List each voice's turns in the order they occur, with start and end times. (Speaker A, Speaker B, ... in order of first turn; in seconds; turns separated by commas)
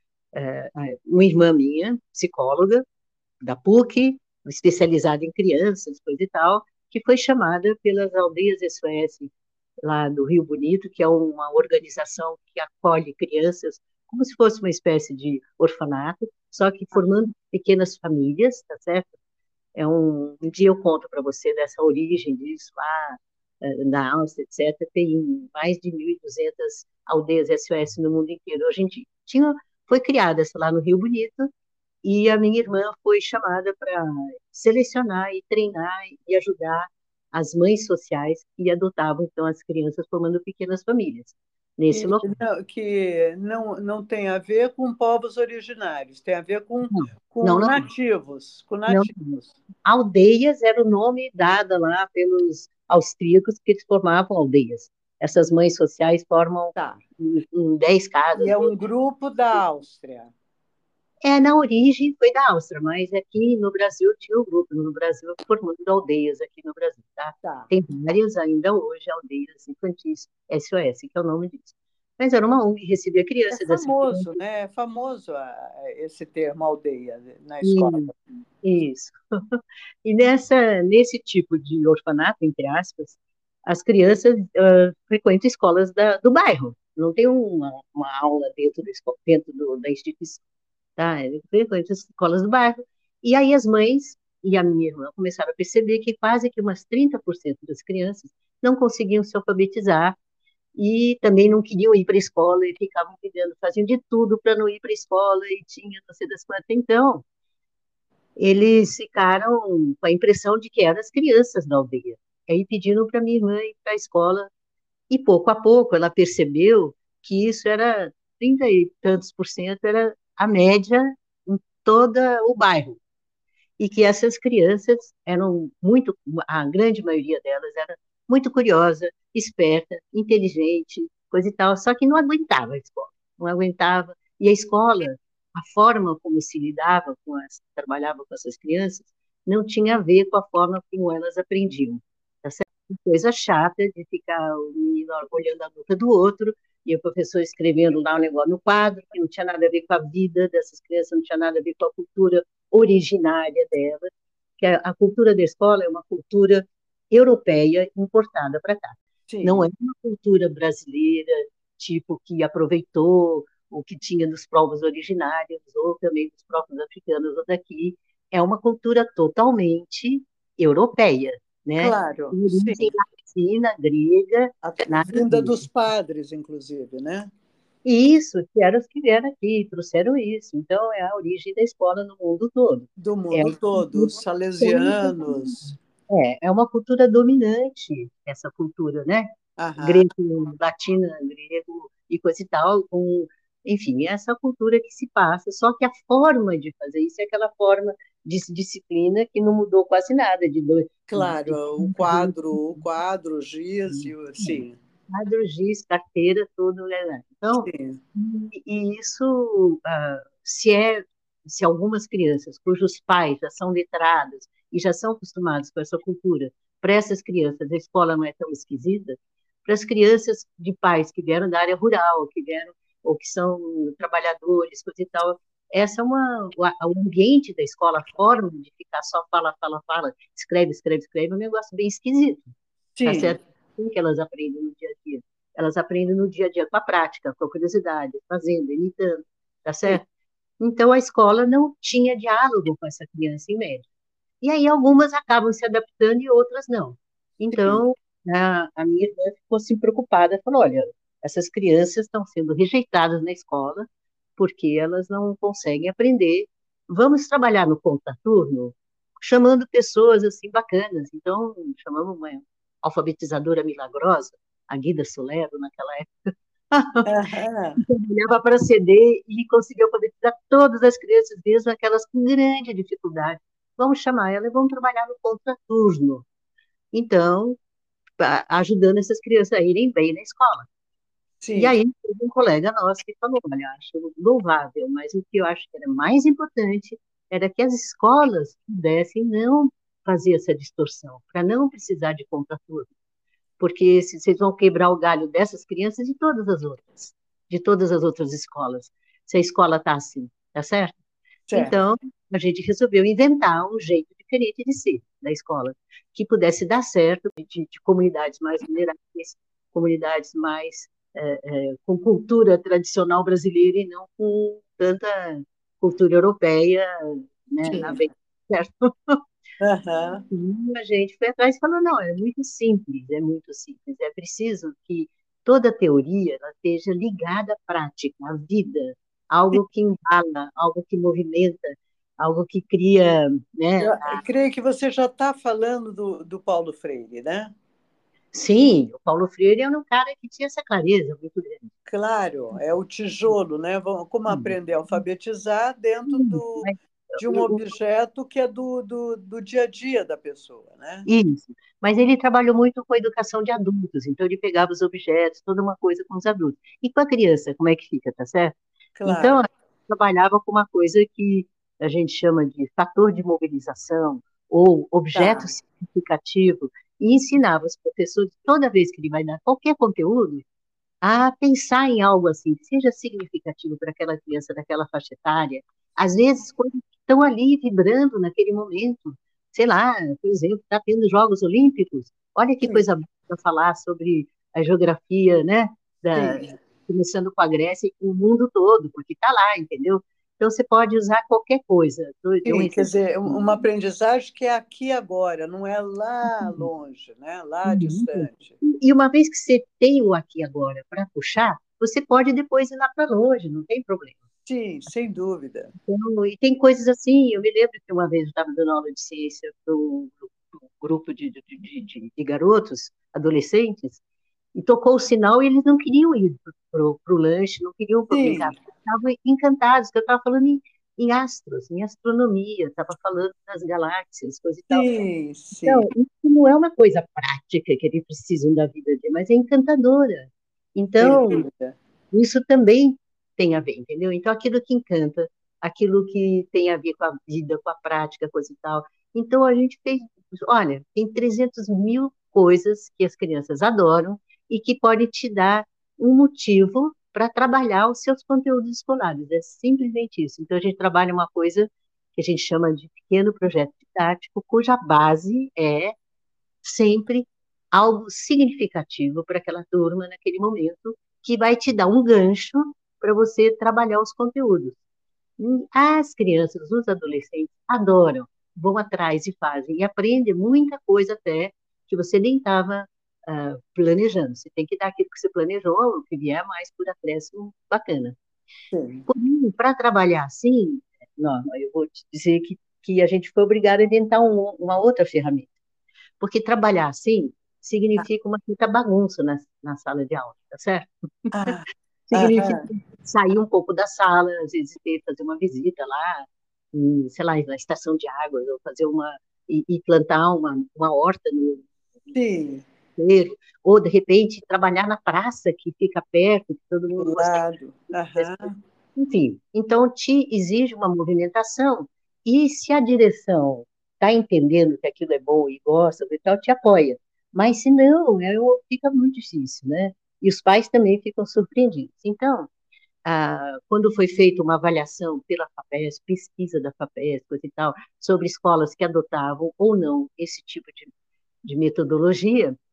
Speaker A: 0.3-2.8, Speaker A: 3.4-9.3, Speaker A: 9.8-19.1, Speaker A: 19.8-31.5, Speaker A: 32.0-42.2, Speaker B: 41.9-49.5, Speaker A: 46.9-47.9, Speaker A: 48.9-58.7, Speaker B: 58.4-60.3, Speaker A: 61.2-74.4, Speaker B: 67.4-67.7, Speaker B: 73.5-78.1, Speaker A: 77.6-90.4, Speaker A: 91.0-100.2, Speaker A: 100.8-107.2, Speaker A: 108.4-114.5, Speaker A: 115.1-123.0, Speaker A: 123.8-175.6, Speaker B: 159.3-159.7, Speaker B: 171.8-172.9, Speaker B: 174.6-177.3, Speaker A: 177.8-189.3, Speaker B: 183.0-185.7, Speaker B: 189.6-190.1, Speaker A: 189.8-202.8, Speaker B: 201.1-204.8, Speaker A: 203.9-232.5, Speaker B: 207.6-208.0, Speaker B: 232.9-233.3, Speaker A: 233.0-240.0, Speaker A: 240.6-243.8, Speaker A: 244.4-253.8, Speaker B: 247.5-247.8, Speaker A: 254.4-267.1, Speaker B: 267.0-267.8, Speaker A: 267.8-276.2, Speaker A: 276.9-277.6, Speaker A: 278.2-280.7, Speaker B: 281.4-281.7, Speaker A: 281.6-292.9, Speaker A: 293.6-300.9, Speaker B: 301.5-301.8, Speaker A: 301.5-319.2, Speaker B: 317.6-318.0, Speaker B: 319.6-320.2, Speaker A: 320.3-334.2, Speaker B: 333.8-337.5, Speaker A: 338.3-341.7, Speaker B: 341.9-346.7, Speaker A: 344.3-344.5, Speaker A: 346.1-347.6, Speaker B: 347.2-351.1, Speaker A: 351.1-370.4, Speaker B: 358.9-359.4, Speaker B: 365.1-365.5, Speaker A: 371.0-393.6, Speaker B: 386.1-386.5, Speaker B: 392.4-398.6, Speaker A: 396.3-396.6, Speaker A: 397.6-404.2, Speaker B: 404.4-405.7, Speaker A: 405.8-414.0, Speaker A: 414.5-424.9, Speaker B: 418.1-418.5, Speaker B: 424.7-425.9, Speaker A: 425.6-431.4, Speaker B: 431.0-431.8, Speaker A: 432.1-455.9, Speaker A: 456.6-464.8, Speaker A: 465.4-478.1, Speaker B: 478.7-479.1, Speaker A: 479.1-485.5, Speaker A: 486.2-491.6, Speaker B: 491.3-492.7, Speaker A: 492.1-502.1, Speaker B: 502.1-502.6, Speaker A: 503.0-522.5, Speaker B: 506.9-508.6, Speaker A: 523.0-530.9, Speaker A: 531.4-532.5